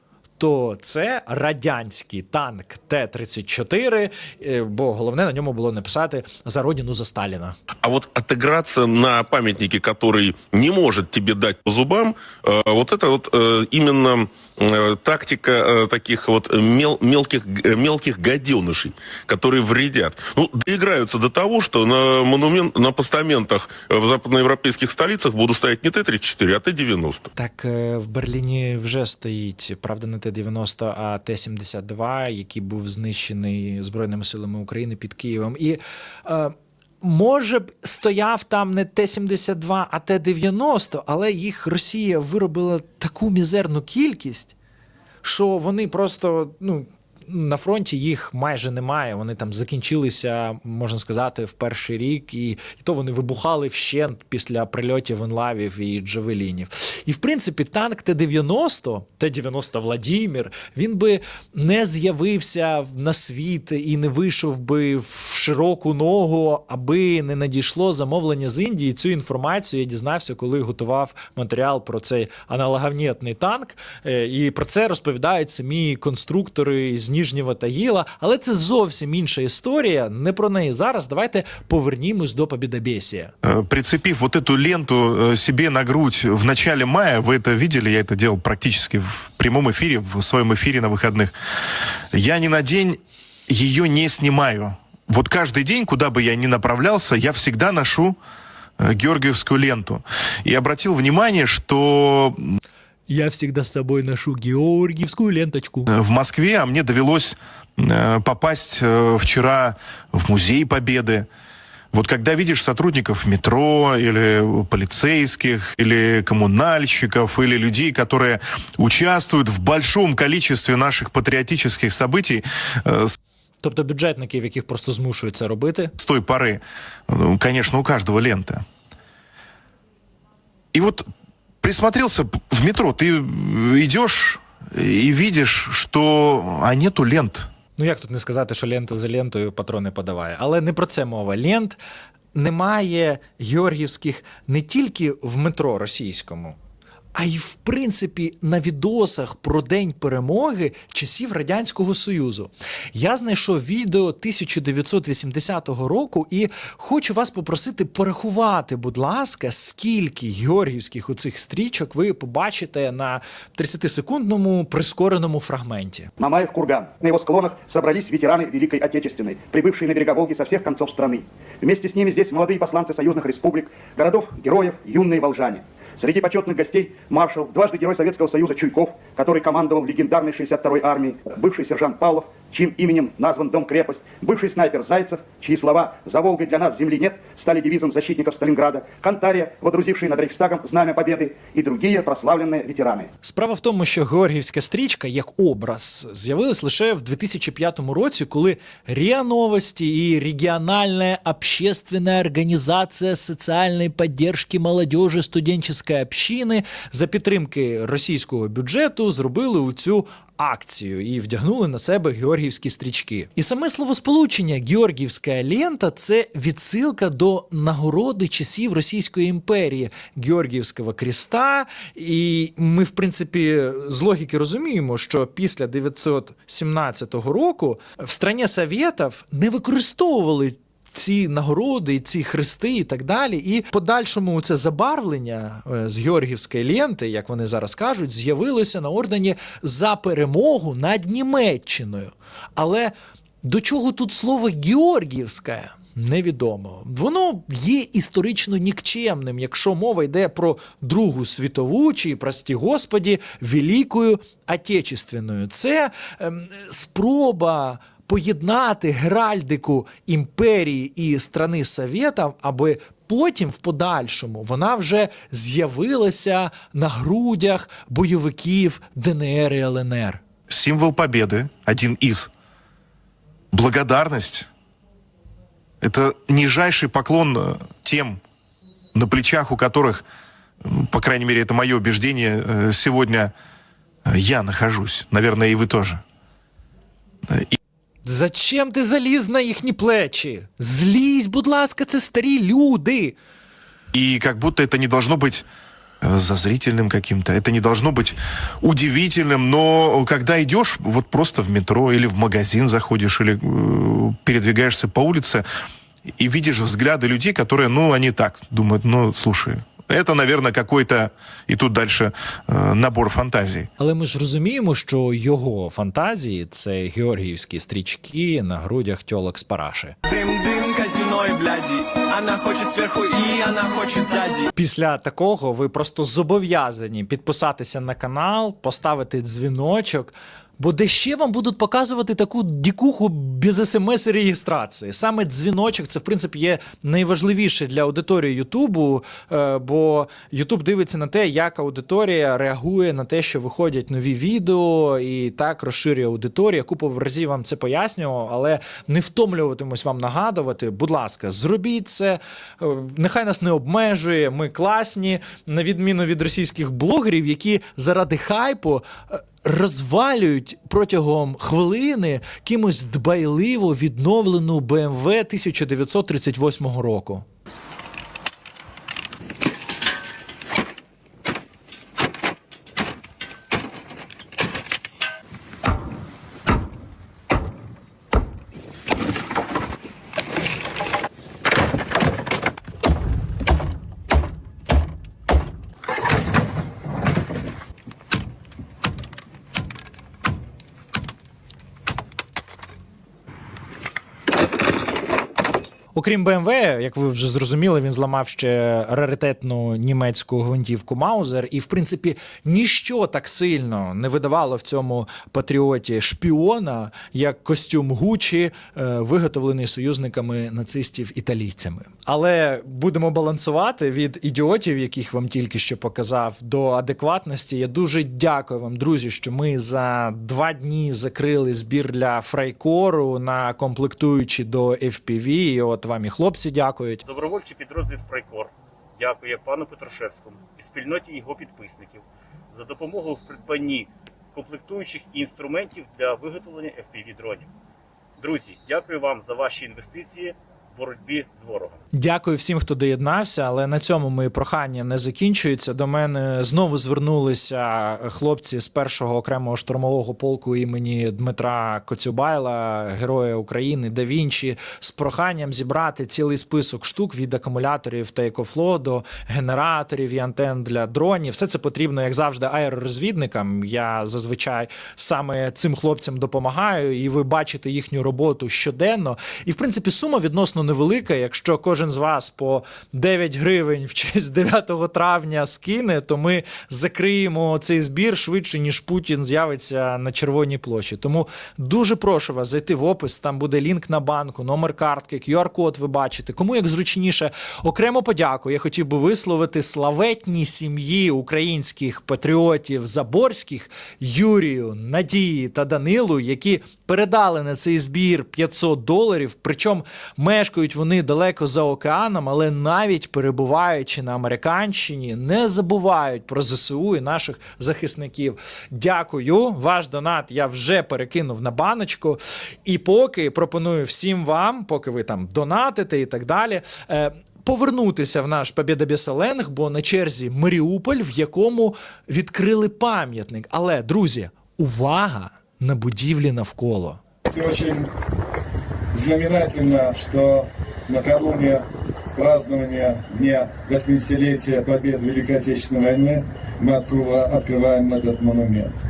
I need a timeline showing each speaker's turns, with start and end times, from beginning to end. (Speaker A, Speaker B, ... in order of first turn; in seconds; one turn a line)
Speaker A: 0.4-7.6
Speaker B: 7.8-27.3
Speaker A: 27.4-44.6
Speaker A: 45.2-83.3
Speaker C: 83.4-91.3
Speaker C: 92.1-98.2
Speaker C: 98.8-102.4
Speaker A: 103.1-105.9
Speaker C: 105.9-111.3
Speaker C: 111.9-123.1
Speaker A: 123.6-125.9
Speaker C: 126.0-128.6
Speaker C: 130.7-131.1
Speaker C: 131.6-137.5
Speaker A: 137.8-141.8
Speaker A: 142.3-146.6
Speaker A: 147.2-166.1
Speaker D: 166.2-193.1
Speaker A: 193.2-242.9
Speaker A: 243.4-270.2
Speaker C: 270.5-272.3
Speaker C: 273.5-274.5
Speaker C: 275.8-278.2
Speaker C: 278.9-280.0
Speaker C: 280.6-283.3
Speaker C: 284.1-286.0
Speaker A: 288.0-293.2
Speaker C: 293.9-295.5
Speaker C: 296.0-305.4
Speaker C: 306.2-313.7
Speaker A: 313.8-320.0
Speaker E: 320.1-324.5
Speaker A: 324.6-367.2
Speaker A: 395.9-427.0
Speaker F: 427.1-437.5
Speaker F: 438.2-441.8
Speaker A: 441.9-527.0
Speaker G: 527.3-527.8
Speaker G: 528.9-531.6
Speaker G: 532.2-538.7